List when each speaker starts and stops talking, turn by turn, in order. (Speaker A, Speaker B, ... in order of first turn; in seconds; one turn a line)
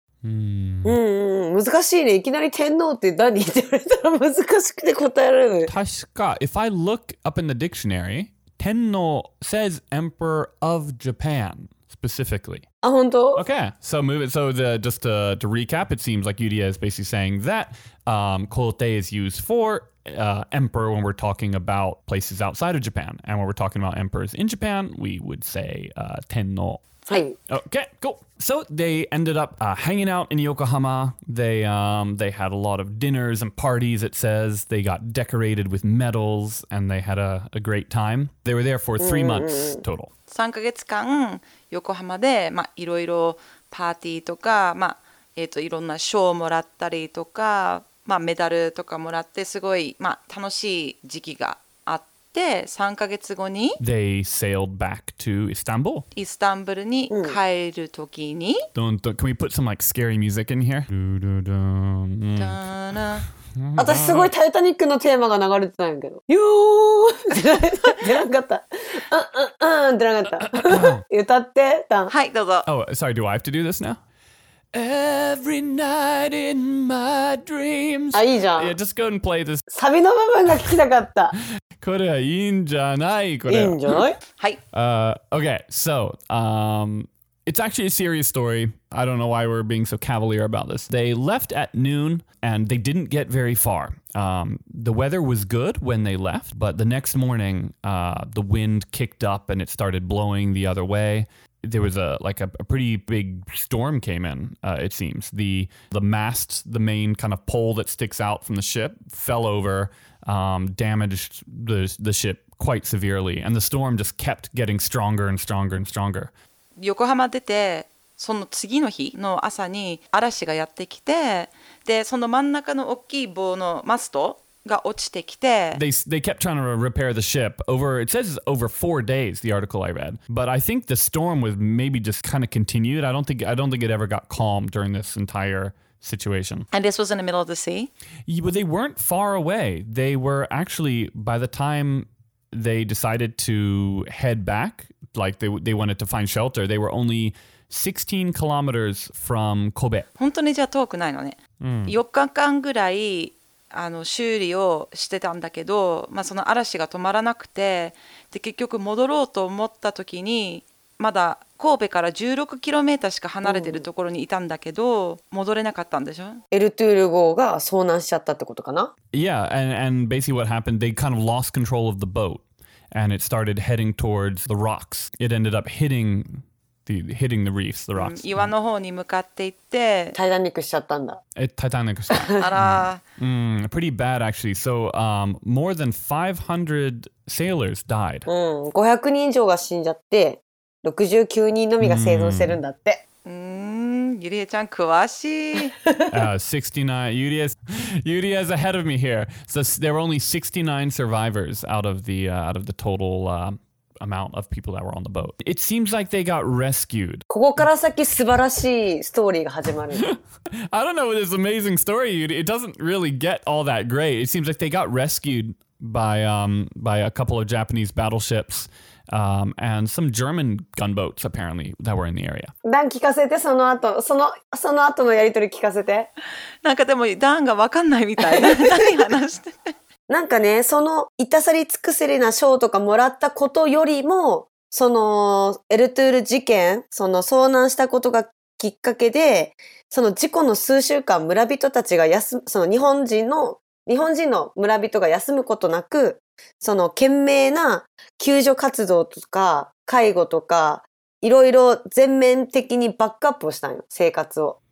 Speaker A: 0.2-1.0
Speaker B: 0.8-5.7
Speaker A: 5.7-12.6
Speaker B: 12.8-13.4
Speaker A: 13.3-40.1
Speaker B: 27.1-27.4
Speaker B: 39.0-39.8
Speaker C: 40.3-53.8
Speaker A: 53.8-56.0
Speaker C: 56.1-58.7
Speaker B: 57.1-57.4
Speaker A: 58.7-62.6
Speaker C: 62.4-63.2
Speaker A: 63.5-64.3
Speaker B: 63.8-72.1
Speaker A: 70.4-71.0
Speaker C: 72.1-72.7
Speaker A: 72.7-74.0
Speaker A: 74.7-79.7
Speaker B: 78.1-78.8
Speaker B: 79.7-81.3
Speaker A: 81.8-84.0
Speaker B: 83.5-84.2
Speaker A: 84.7-116.3
Speaker C: 116.8-125.8
Speaker A: 125.7-136.7
Speaker C: 136.7-137.9
Speaker A: 138.3-150.1
Speaker C: 150.2-166.4
Speaker A: 151.6-152.0
Speaker B: 163.4-163.8
Speaker B: 166.5-168.9
Speaker A: 169.1-178.5
Speaker C: 177.9-180.2
Speaker B: 180.1-181.2
Speaker A: 181.3-188.3
Speaker C: 182.3-183.0
Speaker B: 188.3-193.0
Speaker A: 191.8-192.6
Speaker C: 193.2-195.8
Speaker A: 196.1-207.2
Speaker B: 207.3-210.0
Speaker A: 209.9-222.5
Speaker B: 222.6-226.1
Speaker C: 226.6-229.5
Speaker B: 228.2-228.9
Speaker B: 230.1-254.6